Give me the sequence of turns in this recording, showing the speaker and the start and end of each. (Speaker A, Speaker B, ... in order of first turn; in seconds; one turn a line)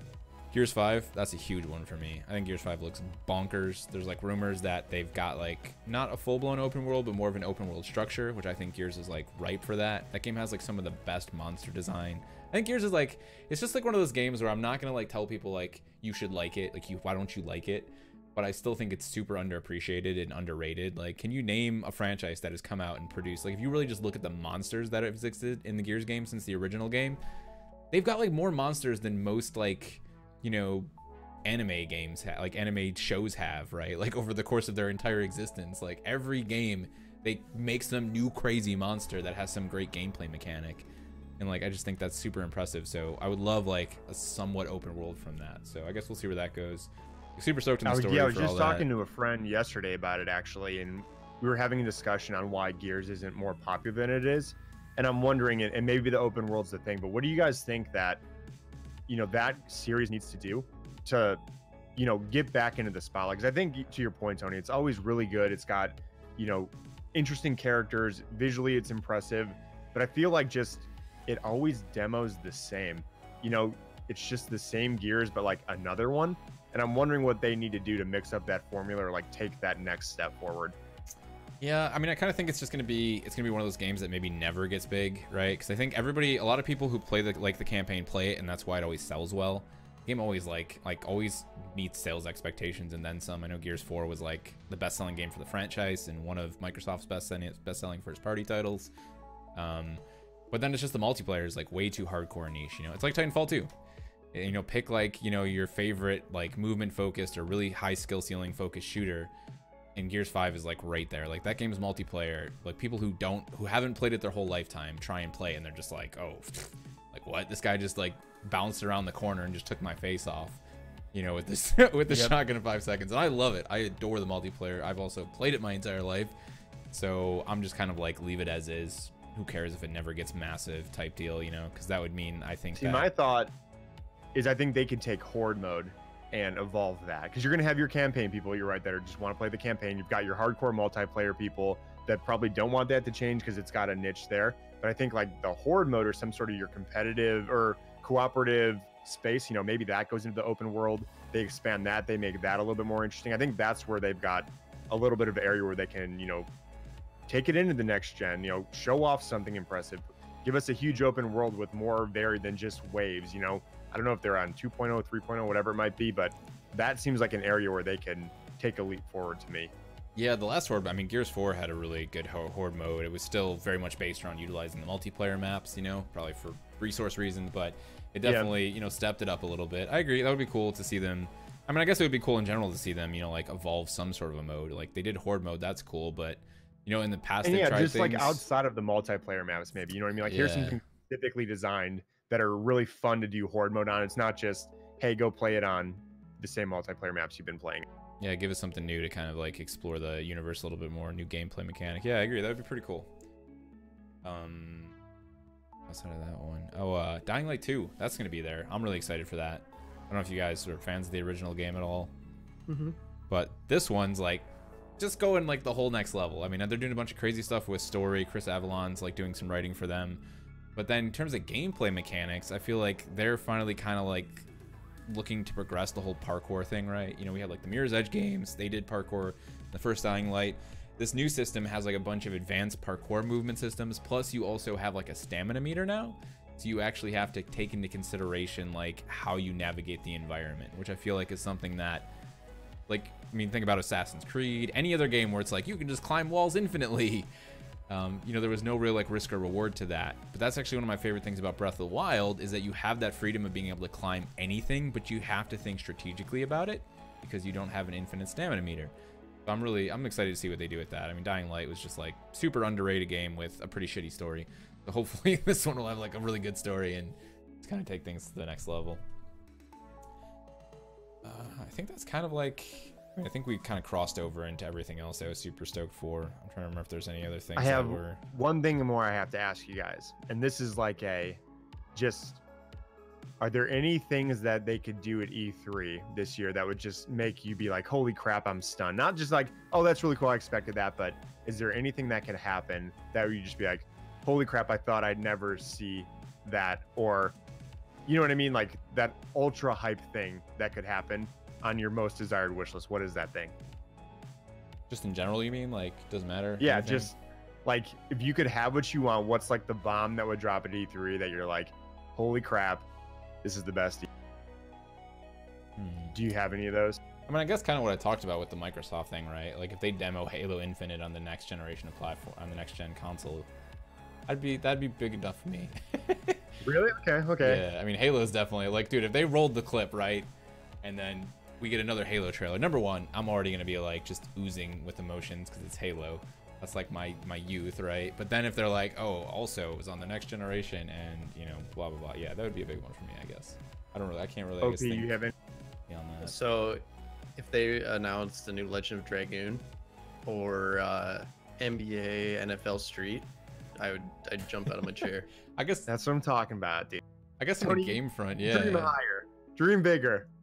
Speaker A: 0.5-27.2
Speaker A: 27.9-30.9
Speaker A: 31.4-40.9
Speaker A: 41.4-48.9
Speaker B: 47.9-58.2
Speaker B: 59.1-61.4
Speaker B: 62.0-80.8
Speaker A: 81.6-98.9
Speaker A: 99.5-103.7
Speaker A: 104.3-109.3
Speaker A: 109.9-120.6
Speaker A: 121.1-126.3
Speaker B: 122.1-122.4
Speaker A: 126.9-133.1
Speaker B: 132.8-133.5
Speaker B: 134.3-156.5
Speaker B: 157.3-169.7
Speaker A: 170.2-188.4
Speaker B: 178.2-178.5
Speaker B: 187.4-197.8
Speaker A: 190.3-190.8
Speaker A: 198.2-203.1
Speaker A: 204.2-204.9
Speaker A: 205.9-212.1
Speaker C: 212.7-212.9
Speaker A: 213.3-214.4
Speaker A: 215.0-220.2
Speaker A: 220.8-224.5
Speaker A: 225.1-242.1
Speaker A: 242.9-247.3
Speaker A: 247.9-258.9
Speaker A: 259.4-269.0
Speaker A: 271.2-278.2
Speaker B: 277.6-281.4
Speaker B: 281.9-282.4
Speaker B: 283.4-297.4
Speaker B: 298.1-303.5
Speaker A: 304.9-307.1
Speaker B: 306.6-307.1
Speaker B: 307.6-312.9
Speaker B: 313.4-314.1
Speaker A: 315.8-316.1
Speaker B: 316.1-317.0
Speaker A: 317.3-323.5
Speaker A: 324.3-326.6
Speaker B: 326.6-327.6
Speaker A: 327.4-330.3
Speaker A: 330.8-345.2
Speaker B: 344.6-345.3
Speaker A: 345.9-346.3
Speaker C: 346.2-346.8
Speaker C: 347.4-349.6
Speaker C: 350.2-355.3
Speaker A: 355.5-355.9
Speaker B: 355.9-357.0
Speaker A: 357.4-358.9
Speaker B: 357.6-360.3